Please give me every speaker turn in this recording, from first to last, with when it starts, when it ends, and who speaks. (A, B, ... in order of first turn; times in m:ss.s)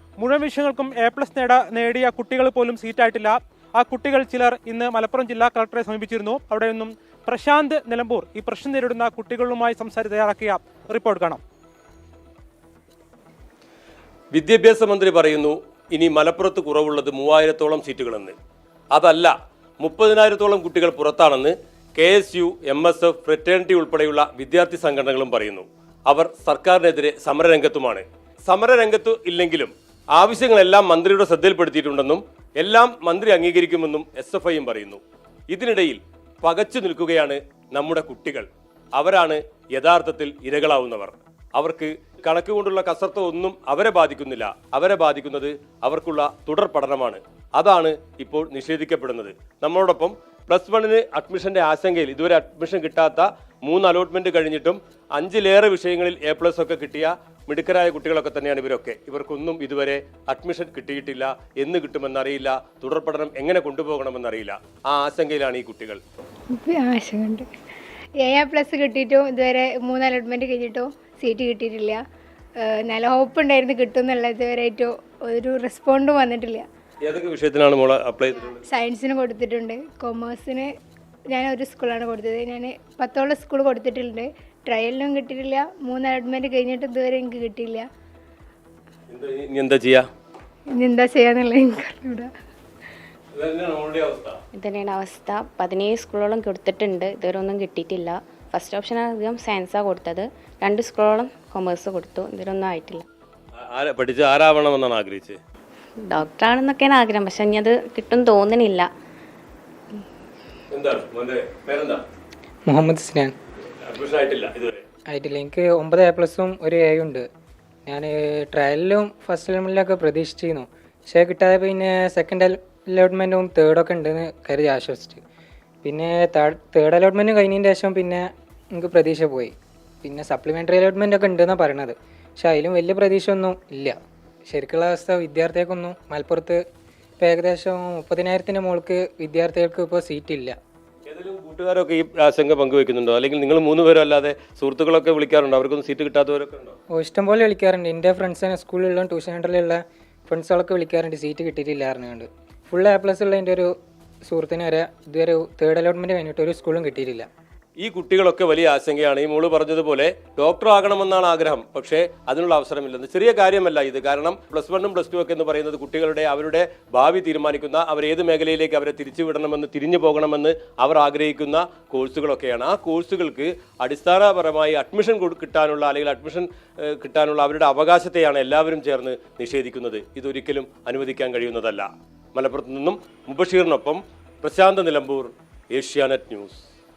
0:00.2-0:11.4 A
0:14.3-0:18.4 B
0:18.9-1:06.0 B
1:06.6-1:07.5 C
1:08.2-1:12.0 C
1:12.6-1:16.6 C
1:17.0-1:18.6 B
1:18.6-1:20.7 C
1:21.3-1:27.9 C
1:29.1-1:30.0 B
1:30.7-1:32.3 C
1:33.3-1:34.4 B
1:34.5-1:43.1 D
1:43.6-1:45.4 B
1:46.1-1:48.9 D
1:50.7-1:52.0 B
1:52.7-1:53.3 E
1:53.8-1:54.8 B
1:55.1-1:57.2 E
1:57.9-2:05.2 E
2:05.8-2:14.0 E
2:14.5-2:16.6 E
2:17.2-2:20.6 E
2:21.1-2:26.8 B
2:26.9-2:33.7 E
2:34.2-2:37.3 E
2:37.8-3:06.6 B